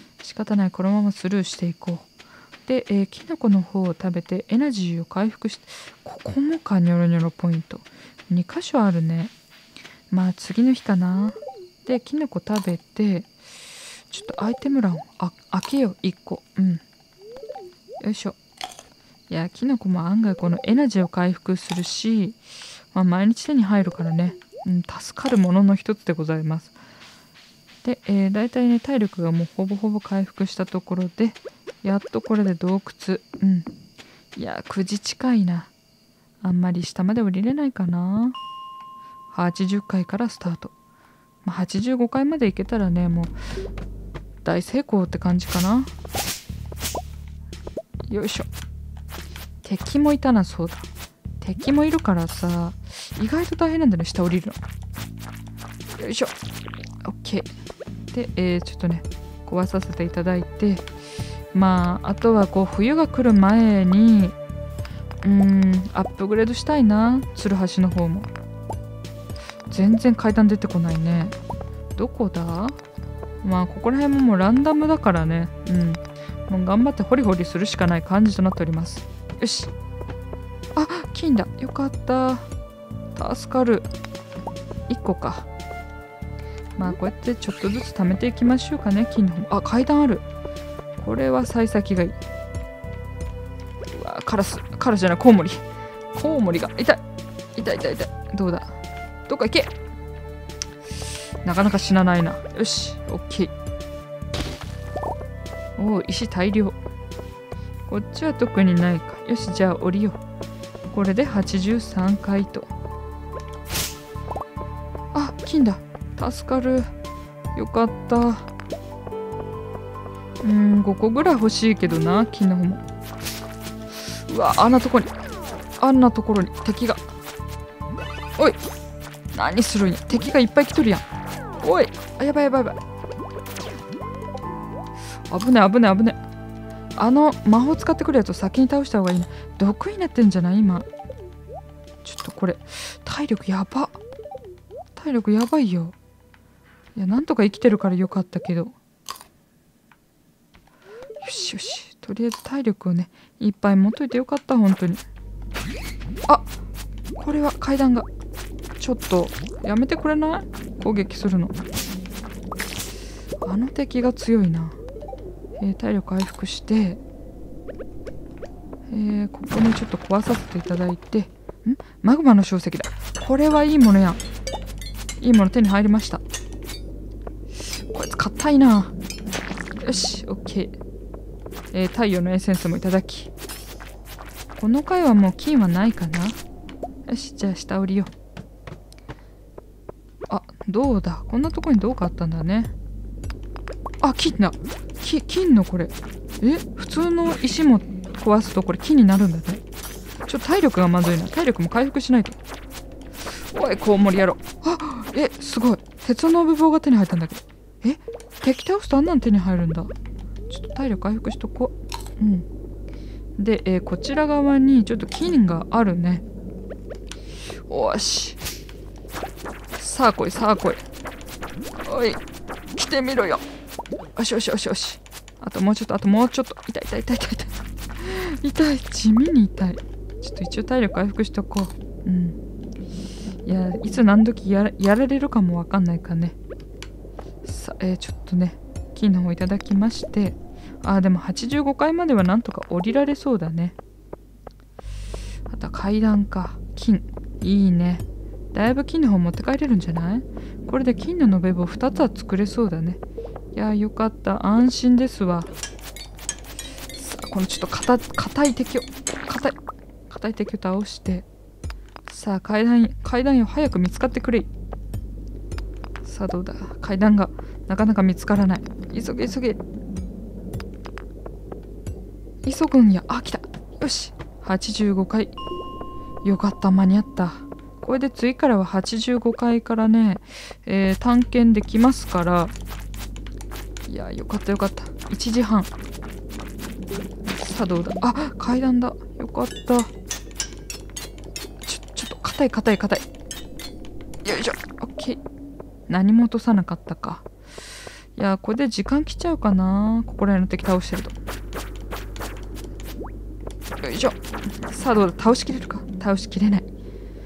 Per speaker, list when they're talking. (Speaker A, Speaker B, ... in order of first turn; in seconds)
Speaker A: 0.2-2.1, 2.7-9.3, 10.1-13.3, 14.1-16.8, 18.0-18.4, 19.3-22.4, 22.9-26.7, 27.8-33.7, 34.4-35.7, 36.4-38.4, 39.3-40.7, 41.4-43.4, 44.4-45.9, 48.1-48.5, 49.6-50.9, 51.4-54.6, 56.0-56.4, 57.0-57.5, 58.1-60.9, 61.5-64.4, 65.2-68.3, 69.7-71.3, 72.0-72.8, 73.4-79.7, 80.8-82.5, 83.2-83.9, 84.9-85.5, 86.8-90.3, 91.0-92.2, 93.9-97.0, 97.5-98.8, 99.3-99.7, 101.4-103.5, 105.8-106.8, 107.9-110.2, 110.9-112.7, 115.1-116.9, 117.5-118.5, 120.4-122.8, 124.1-125.2, 125.8-127.0, 129.3-131.1, 131.6-132.8, 135.3-136.2, 137.0-140.9, 142.0-144.0, 144.9-146.0, 147.0-148.7, 151.2-155.0, 157.2-158.1, 158.8-161.6, 163.4-164.8, 165.6-167.0, 168.9-174.2, 175.2-176.2, 177.6-178.9, 179.8-180.8, 181.7-183.3, 184.6-186.4, 187.1-188.1, 190.3-192.7, 194.0-199.6, 200.3-202.4, 203.2-209.9, 210.5-212.5, 213.4-216.2, 217.7-218.4, 219.8-220.8, 221.8-222.2, 222.7-223.4, 224.2-232.4, 233.4-236.4, 237.4-243.8, 245.5-253.0, 253.5-255.5, 256.9-261.3, 262.1-264.5, 266.0-269.6, 272.4-275.4, 276.2-282.5, 283.9-285.7, 287.3-289.9, 291.6-293.1, 294.2-295.2, 295.9-297.3, 298.1-301.2, 303.8-306.7